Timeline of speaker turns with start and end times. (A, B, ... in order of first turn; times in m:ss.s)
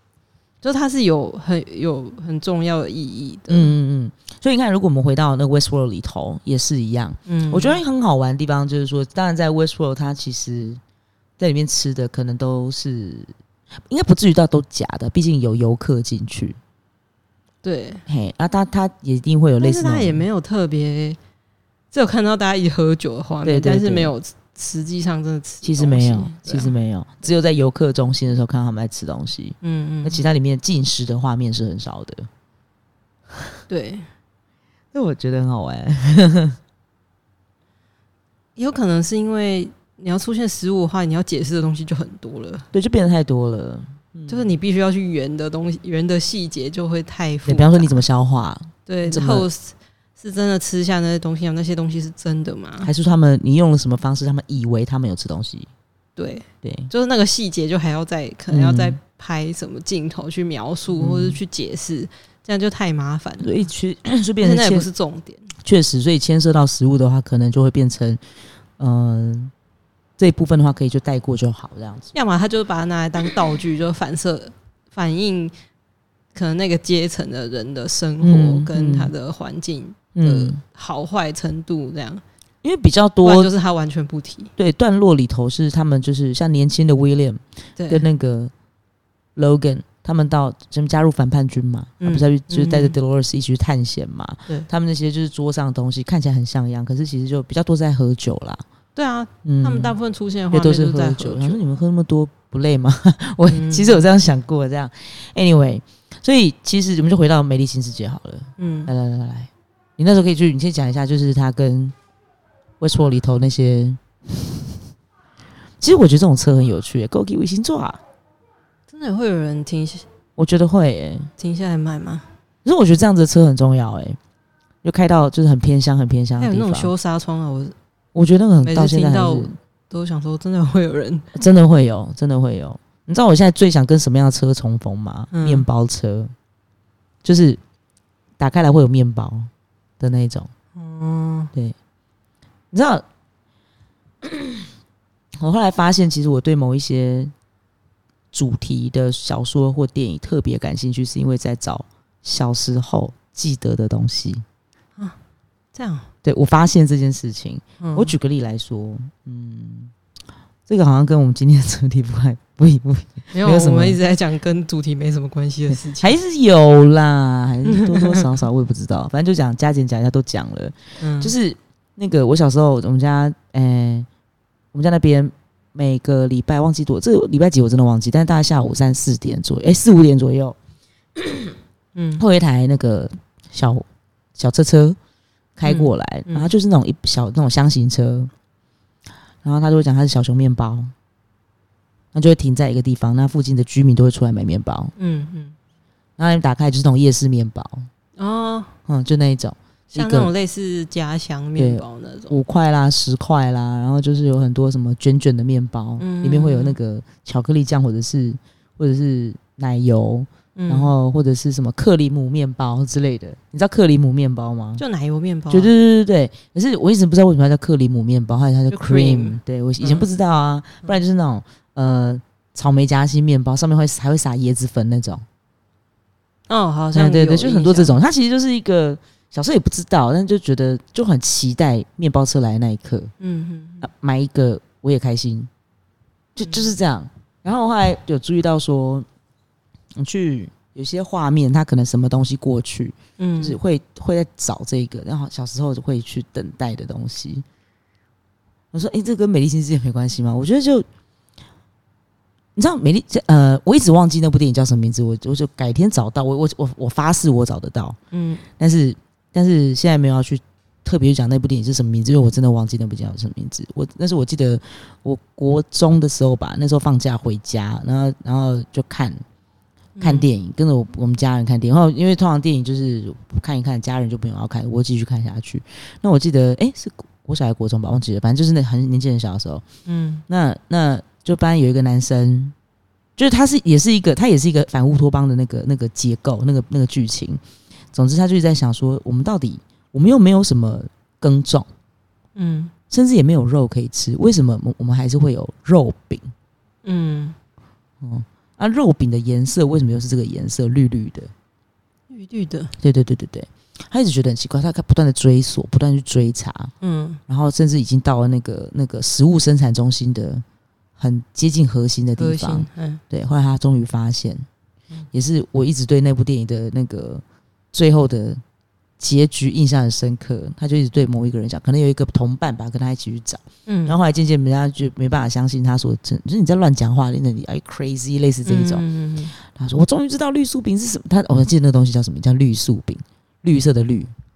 0:00.6-0:03.7 A
0:03.5-0:10.8 B
0:07.3-0:07.8 A
0:11.4-0:13.3 B
0:13.9-0:16.6 B
0:17.6-0:18.0 A
0:18.1-0:20.2 B
0:19.6-0:21.2 A
0:21.9-0:26.7 A
0:23.4-0:24.1 B
0:25.6-0:32.3 B
0:29.6-0:30.2 A
0:33.7-0:34.1 A
0:34.9-0:36.6 B
0:38.6-0:42.7 A
0:42.7-0:44.5 B
0:44.3-0:48.0 A
0:47.4-0:49.5 B
0:48.9-0:52.9 A
0:52.8-0:55.7 B
0:56.2-1:03.5 A
0:56.6-0:56.9 B
0:58.5-0:59.0 B
1:00.9-1:01.4 B
1:03.4-1:04.9 B
1:04.4-1:05.5 A
1:05.6-1:08.2 B
1:08.8-1:09.5 B
1:10.2-1:12.1 B
1:12.1-1:15.5 A
1:16.3-1:22.2 A
1:18.2-1:19.1 B
1:20.2-1:20.6 B
1:22.6-1:23.5 B
1:23.2-1:24.5 A
1:24.6-1:28.5 B
1:27.8-1:28.1 A
1:29.4-1:38.6 B
1:32.0-1:33.0 A
1:39.0-1:41.6 A
1:39.4-1:40.0 B
1:40.5-1:52.0 B
1:43.5-1:44.0 A
1:48.6-1:48.9 A
1:52.8-1:54.8 B
1:55.8-1:58.0 B
1:58.9-2:00.0 A
2:00.4-2:01.3 B
2:01.4-2:02.3 A
2:02.6-2:04.2 B
2:04.8-2:06.9 B
2:06.4-2:07.8 A
2:08.2-2:09.5 B
2:08.6-2:11.3 A
2:11.3-2:16.3 B
2:15.3-2:15.7 A
2:17.2-2:17.6 B
2:18.4-2:20.5 B
2:20.8-2:21.5 A
2:22.7-2:23.0 B
2:24.2-2:24.7 B
2:25.4-2:27.3 B
2:28.3-2:34.4 B
2:35.7-2:36.1 A
2:36.2-2:39.9 B
2:37.8-2:38.1 A
2:40.7-2:44.0 B
2:43.3-2:46.2 A
2:45.7-2:54.1 B
2:47.7-2:48.4 A
2:51.0-2:51.3 A
2:54.7-3:00.6 B
3:01.2-3:01.6 B
3:02.0-3:02.2 A
3:02.2-3:05.0 B
3:05.6-3:08.3 B
3:05.6-3:06.5 A
3:09.4-3:10.9 B
3:12.1-3:14.9 B
3:15.0-3:15.6 A
3:16.2-3:17.9 B
3:18.2-3:18.7 A
3:18.9-3:20.3 B
3:20.0-3:22.4 A
3:21.6-3:34.8 B
3:26.0-3:26.8 A
3:30.6-3:30.9 A
3:34.8-3:35.7 A
3:35.5-3:45.2 B
3:38.7-3:40.1 A
3:46.5-3:48.0 A
3:46.9-3:53.1 B
3:53.2-3:53.9 A
3:53.8-3:55.5 B
3:56.4-3:59.1 B
3:56.4-3:56.7 A
4:00.0-4:07.4 B
4:03.2-4:03.6 A
4:08.7-4:10.9 B
4:12.6-4:18.0 B
4:18.1-4:18.4 A
4:18.6-4:29.2 B
4:30.0-4:30.3 A
4:30.0-4:39.6 B
4:39.9-4:40.2 A
4:40.3-4:42.6 B
4:43.2-4:47.4 B
4:47.9-4:51.7 B
4:52.4-4:52.7 A
4:52.9-4:56.3 B
4:56.8-4:57.4 A
4:58.0-5:01.3 B
5:02.1-5:02.8 A
5:02.8-5:06.7 B
5:06.8-5:07.2 A
5:07.3-5:10.4 B
5:11.0-5:14.4 B
5:12.2-5:13.0 A
5:15.1-5:18.4 B
5:19.0-5:28.8 B
5:23.7-5:24.0 A
5:28.4-5:29.3 A
5:29.4-5:34.1 B